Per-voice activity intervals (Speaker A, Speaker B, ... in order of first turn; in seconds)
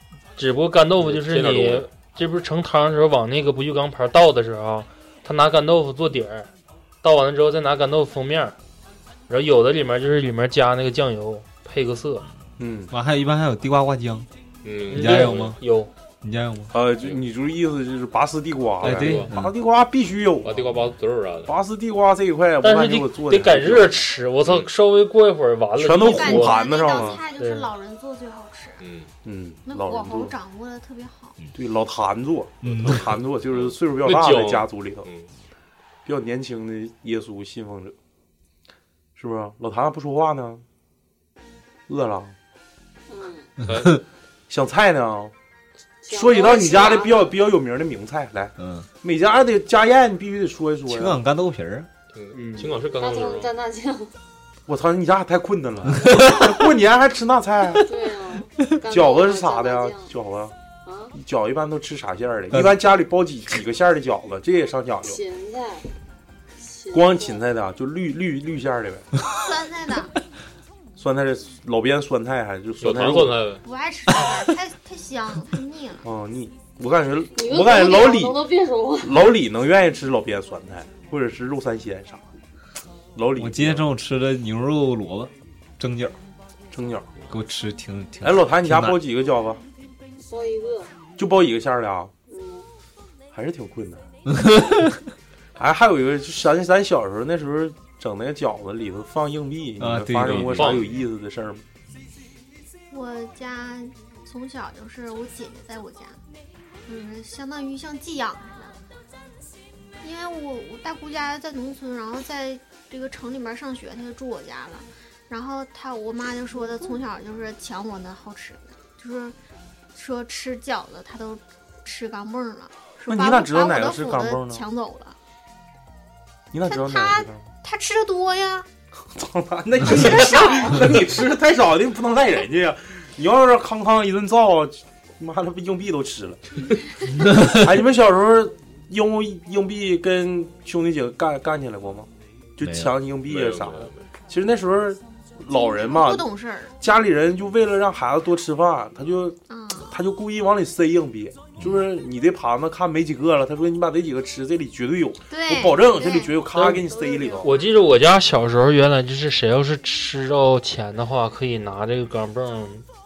Speaker A: 0.4-6.5, 7.0-8.6, 9.3-12.2, 14.9-15.9, 22.6-26.6, 27.4-27.7, 52.3-52.8, 157.4-162.9
Speaker B: 1.0-1.9, 14.6-15.5, 17.0-17.2, 18.8-19.3, 20.4-21.5, 28.8-29.1, 33.5-35.3, 43.6-44.0, 52.1-53.5, 72.8-73.6, 100.2-101.0, 143.2-144.0
Speaker C: 12.6-12.9, 16.7-20.7, 21.5-24.0, 25.8-27.2, 29.2-30.3, 31.5-35.1, 36.0-37.9, 39.1-40.6, 41.9-42.4, 44.5-45.3, 46.1-51.2, 54.7-57.9, 58.9-60.5, 61.1-65.2, 66.9-69.1, 71.0-73.4, 76.0-78.4, 79.0-82.2, 83.1-83.8, 86.7-87.1, 88.2-89.6, 91.2-92.1, 93.3-94.0, 95.5-101.6, 123.1-124.6, 126.5-127.4, 129.1-136.4, 137.3-146.3, 146.8-157.5
Speaker D: 12.9-14.3, 14.9-15.6, 16.2-16.7, 18.8-19.5, 32.6-33.1, 43.6-44.0, 48.6-48.9, 50.9-51.9, 56.0-56.5, 62.5-62.8, 83.4-86.2, 87.3-89.0, 94.3-95.0, 99.8-100.9, 142.6-142.9, 151.6-151.9
Speaker E: 26.0-28.8, 29.6-31.4, 69.2-70.1, 73.6-76.0, 102.9-106.2, 106.9-108.8, 110.0-119.4, 119.9-125.2, 126.7-128.7, 129.9-130.9, 145.5-146.8, 149.5-150.0, 155.3-157.6
Speaker F: 43.1-43.5, 46.0-47.4, 53.0-54.1, 57.8-60.1, 60.9-61.1, 65.0-65.9, 66.6-67.4, 77.3-79.1, 90.2-90.9, 92.3-92.7